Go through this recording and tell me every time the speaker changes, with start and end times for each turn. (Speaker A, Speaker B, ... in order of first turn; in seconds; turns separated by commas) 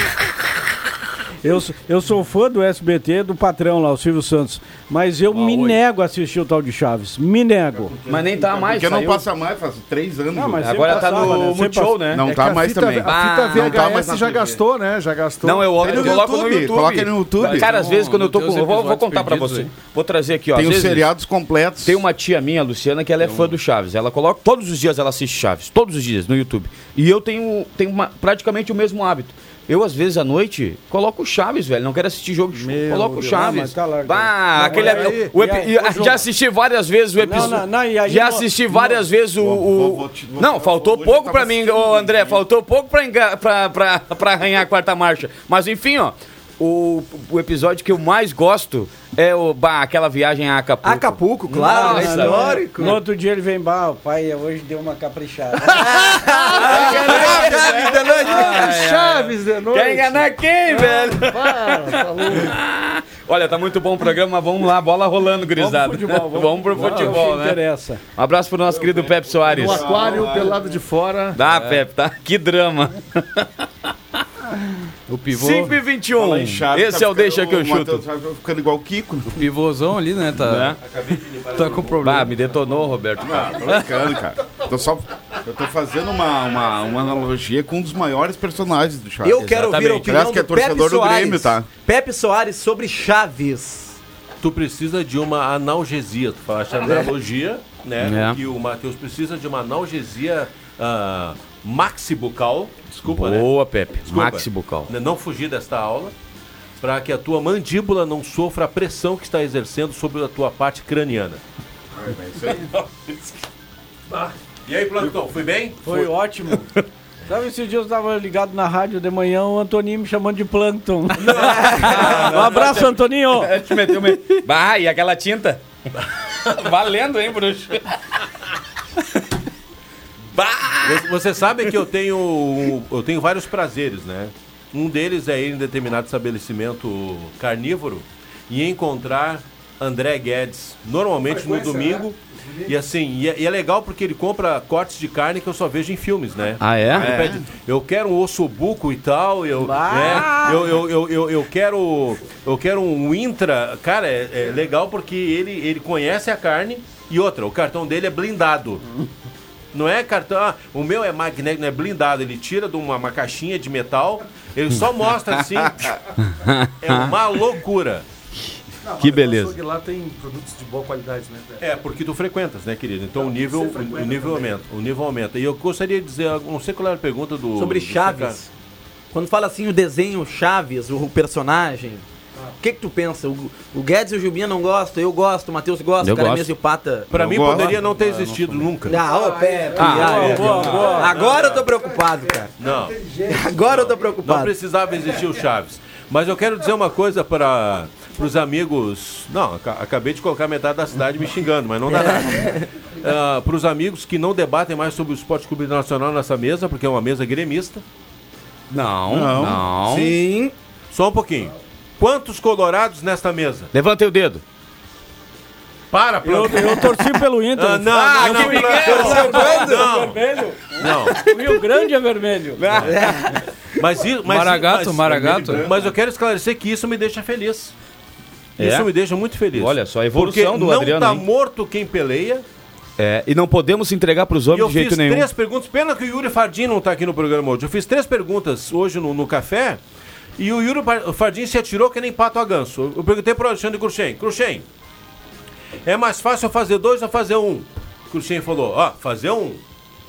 Speaker A: 1.4-7.9, Speaker B: 5.3-5.8, Speaker C: 7.8-11.4, Speaker D: 8.1-9.2, Speaker A: 10.3-12.0, Speaker D: 10.6-12.3, Speaker C: 12.1-14.6, Speaker E: 12.2-16.2, Speaker D: 13.0-13.9, Speaker D: 15.4-21.1, Speaker C: 15.8-17.7, Speaker B: 17.4-19.8, Speaker C: 20.5-22.0, Speaker D: 21.8-52.6, Speaker B: 23.2-23.6, Speaker A: 32.6-35.7, Speaker E: 32.7-33.1, Speaker E: 34.5-36.2, Speaker A: 37.2-38.8, Speaker C: 39.4-42.4, Speaker F: 50.8-53.0, Speaker E: 51.7-52.9, Speaker A: 51.8-56.1, Speaker E: 55.7-62.6, Speaker F: 55.8-58.7, Speaker D: 56.5-67.6, Speaker A: 65.5-68.0, Speaker D: 68.2-70.0, Speaker C: 68.7-70.7, Speaker E: 69.5-71.4, Speaker D: 71.3-73.9, Speaker B: 71.4-71.8, Speaker B: 75.1-75.8, Speaker D: 75.3-78.0, Speaker C: 76.2-79.4, Speaker B: 79.3-80.8, Speaker D: 80.4-80.8, Speaker G: 80.8-82.8, Speaker B: 81.6-82.3, Speaker D: 82.0-83.8, Speaker C: 83.2-91.7, Speaker F: 89.2-94.0, Speaker D: 89.4-90.0, Speaker G: 94.4-106.1, Speaker D: 98.0-98.4, Speaker D: 103.1-104.9, Speaker G: 106.8-111.4, Speaker C: 111.9-112.7, Speaker G: 114.2-116.0, Speaker A: 115.8-116.7, Speaker A: 117.3-124.4, Speaker G: 121.2-122.9, Speaker D: 121.7-125.6, Speaker D: 126.3-128.0, Speaker D: 130.3-131.1, Speaker G: 130.8-158.8, Speaker E: 141.2-142.8, Speaker D: 146.6-147.1, Speaker C: 146.9-147.4, Speaker A: 149.6-150.6, Speaker G: 159.7-166.0, Speaker D: 166.3-167.1, Speaker G: 166.8-168.0, Speaker E: 168.8-171.8, Speaker D: 169.0-169.5, Speaker G: 171.6-178.4, Speaker E: 173.1-174.6, Speaker F: 177.5-178.5, Speaker F: 179.1-182.0, Speaker F: 182.6-187.1, Speaker D: 186.0-186.5, Speaker G: 187.1-189.0, Speaker C: 187.1-187.7, Speaker B: 187.6-188.7, Speaker F: 188.8-192.5, Speaker E: 189.0-193.5, Speaker D: 189.8-190.8, Speaker A: 189.8-191.1, Speaker G: 189.9-191.7, Speaker G: 192.6-192.9, Speaker F: 193.3-194.5, Speaker G: 193.6-207.8, Speaker F: 201.9-202.6, Speaker D: 208.7-210.2, Speaker C: 209.1-209.8, Speaker F: 209.9-210.5, Speaker G: 210.9-213.7, Speaker D: 213.7-214.4, Speaker G: 215.9-217.0, Speaker A: 216.2-222.8, Speaker G: 217.5-220.2, Speaker D: 217.9-219.5, Speaker F: 218.8-219.9, Speaker G: 220.8-221.2, Speaker D: 222.6-223.4, Speaker F: 222.9-223.3, Speaker G: 223.8-227.7, Speaker B: 224.2-225.7, Speaker C: 225.4-225.9, Speaker D: 228.6-228.9, Speaker G: 228.6-232.4, Speaker D: 229.5-231.2, Speaker D: 233.0-235.3, Speaker G: 234.5-239.8, Speaker G: 240.4-244.7, Speaker G: 245.8-249.6